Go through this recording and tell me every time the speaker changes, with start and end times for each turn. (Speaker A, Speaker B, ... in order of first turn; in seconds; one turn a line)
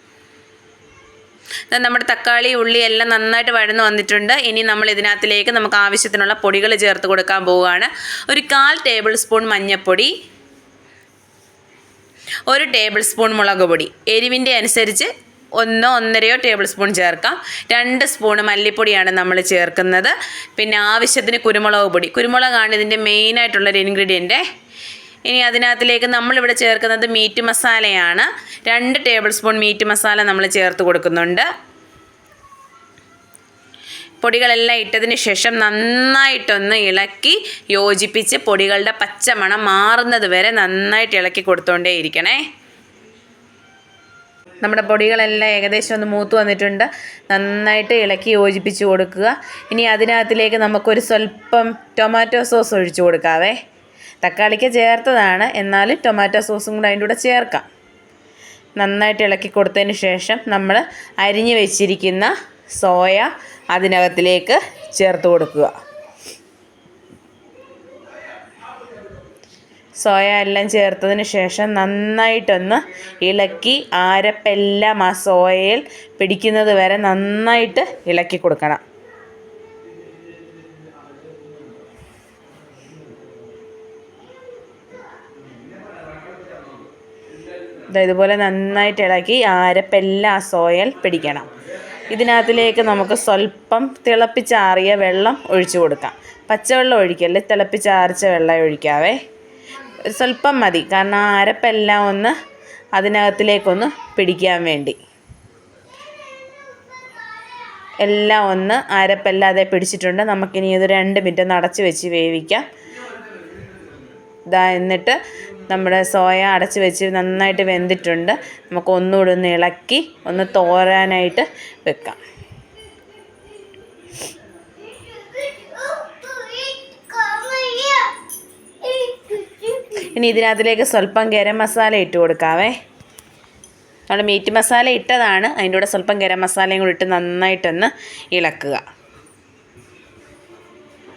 Speaker A: 1.7-10.1
Speaker A: 12.5-24.4
Speaker A: 25.3-31.5
Speaker A: 34.2-42.4
Speaker A: 44.6-53.6
Speaker A: 54.2-57.7
Speaker A: 58.8-65.7
Speaker A: 70.0-78.8
Speaker A: 87.9-91.5
Speaker A: 92.1-99.2
Speaker A: 100.0-102.3
Speaker A: 103.0-105.0
Speaker A: 108.0-112.7
Speaker A: 114.5-122.2
Speaker A: 126.0-128.2
Speaker A: 128.8-132.8
Speaker A: 134.1-138.8